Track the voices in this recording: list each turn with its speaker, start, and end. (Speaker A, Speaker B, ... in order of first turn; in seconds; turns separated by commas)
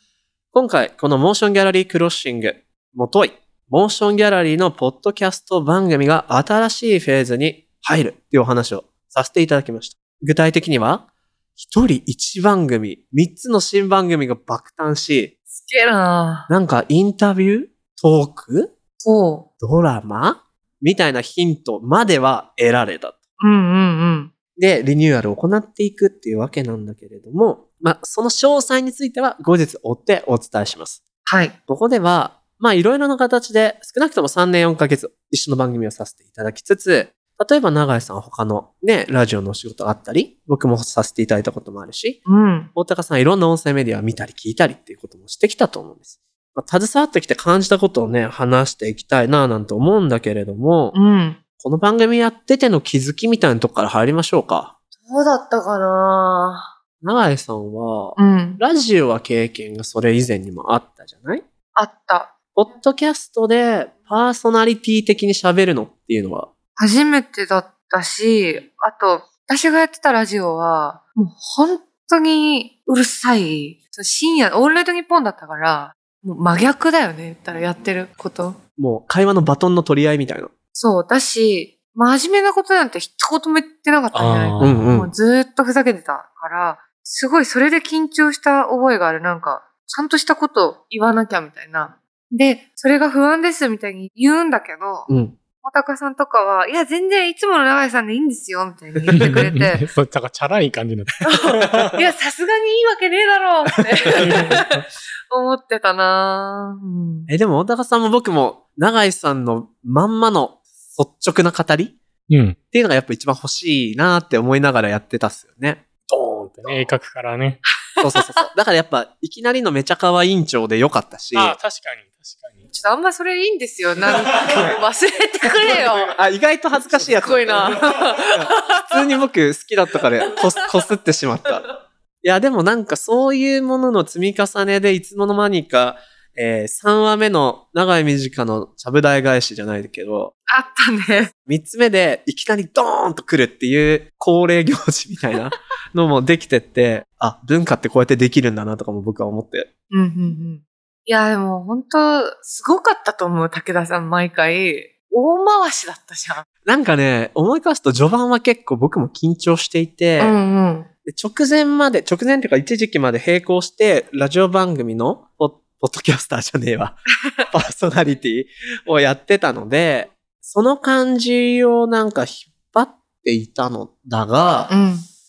Speaker A: 0.5-15.3, Speaker B: 15.5-16.5, Speaker A: 16.5-18.7, Speaker B: 19.0-19.5, Speaker A: 19.6-23.2, Speaker B: 23.4-24.3, Speaker A: 24.6-31.0, Speaker B: 31.2-31.6, Speaker A: 31.7-42.2, Speaker B: 42.2-42.7, Speaker A: 42.8-50.9, Speaker B: 50.9-51.4, Speaker A: 51.6-54.7, Speaker B: 55.0-56.7, Speaker A: 57.0-61.4, Speaker B: 58.1-58.6, Speaker B: 61.7-62.3, Speaker A: 62.5-66.5, Speaker B: 66.8-78.6, Speaker A: 78.8-80.5, Speaker B: 80.7-95.1, Speaker C: 84.1-84.9, Speaker A: 84.6-85.1, Speaker A: 95.1-95.4, Speaker B: 95.6-99.8, Speaker A: 99.0-99.4, Speaker C: 99.1-101.9, Speaker B: 101.2-107.3, Speaker C: 104.1-104.8, Speaker A: 104.1-104.5, Speaker A: 107.3-112.0, Speaker C: 112.3-112.6, Speaker A: 112.7-115.8, Speaker C: 116.1-117.6, Speaker B: 118.0-118.5, Speaker A: 118.0-121.6, Speaker C: 121.3-122.7, Speaker B: 122.7-126.2, Speaker A: 125.6-131.7, Speaker B: 127.0-128.9, Speaker B: 130.3-130.6, Speaker A: 132.2-140.3, Speaker B: 140.5-141.3, Speaker A: 141.4-149.7, Speaker B: 149.9-156.4, Speaker A: 156.6-160.4, Speaker B: 160.2-160.9, Speaker A: 161.1-174.7, Speaker B: 174.7-175.1